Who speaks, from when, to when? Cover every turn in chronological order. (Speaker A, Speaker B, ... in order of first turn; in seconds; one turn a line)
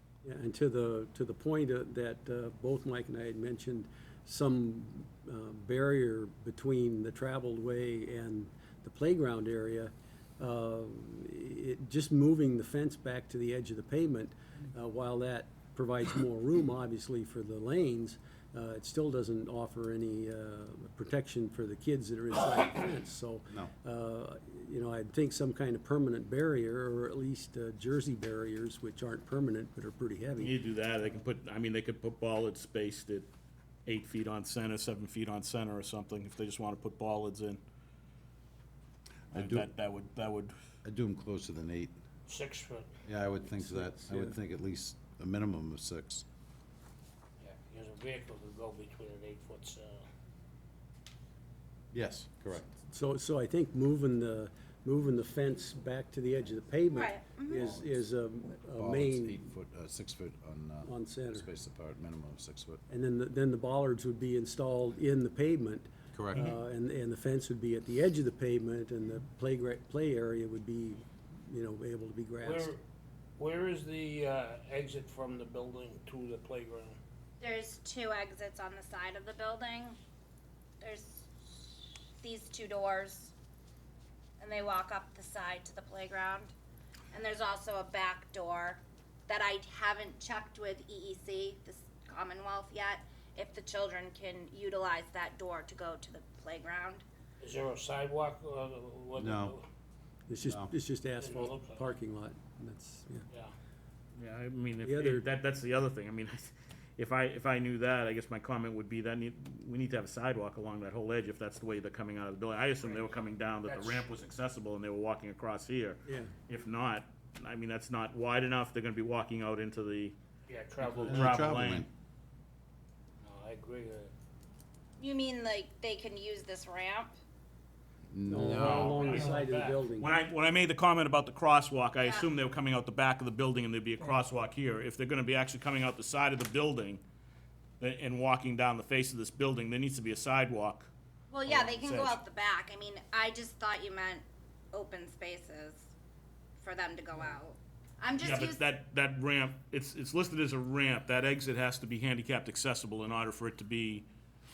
Speaker A: 0.2-30.5
Speaker B: 30.4-33.3
Speaker B: 33.9-37.6
Speaker C: 39.3-39.7
Speaker B: 39.3-40.5
Speaker C: 40.8-41.9
Speaker D: 42.3-42.9
Speaker C: 43.0-46.2
Speaker A: 43.6-44.3
Speaker D: 47.4-50.0
Speaker C: 51.9-52.7
Speaker A: 52.9-59.4
Speaker E: 56.9-57.7
Speaker C: 57.6-57.9
Speaker C: 58.8-62.8
Speaker A: 60.8-61.5
Speaker A: 62.9-72.7
Speaker C: 66.1-66.5
Speaker D: 72.4-72.8
Speaker D: 73.4-77.0
Speaker E: 77.4-80.0
Speaker E: 80.8-83.3
Speaker E: 84.4-86.5
Speaker E: 87.1-97.0
Speaker D: 97.4-99.6
Speaker C: 99.2-99.5
Speaker A: 100.3-103.2
Speaker C: 100.4-100.7
Speaker D: 101.2-101.9
Speaker B: 104.1-120.2
Speaker A: 104.8-105.2
Speaker D: 112.8-114.1
Speaker A: 116.0-116.3
Speaker D: 120.5-121.3
Speaker B: 120.8-121.9
Speaker C: 120.9-121.9
Speaker D: 123.2-124.1
Speaker E: 125.0-127.2
Speaker C: 128.1-129.0
Speaker A: 128.3-130.1
Speaker D: 128.5-129.8
Speaker B: 128.5-129.3
Speaker B: 130.0-137.0
Speaker E: 132.0-132.3
Speaker B: 137.8-140.9
Speaker E: 141.3-145.9
Speaker B: 141.4-142.2
Speaker E: 146.6-148.7
Speaker B: 148.2-154.1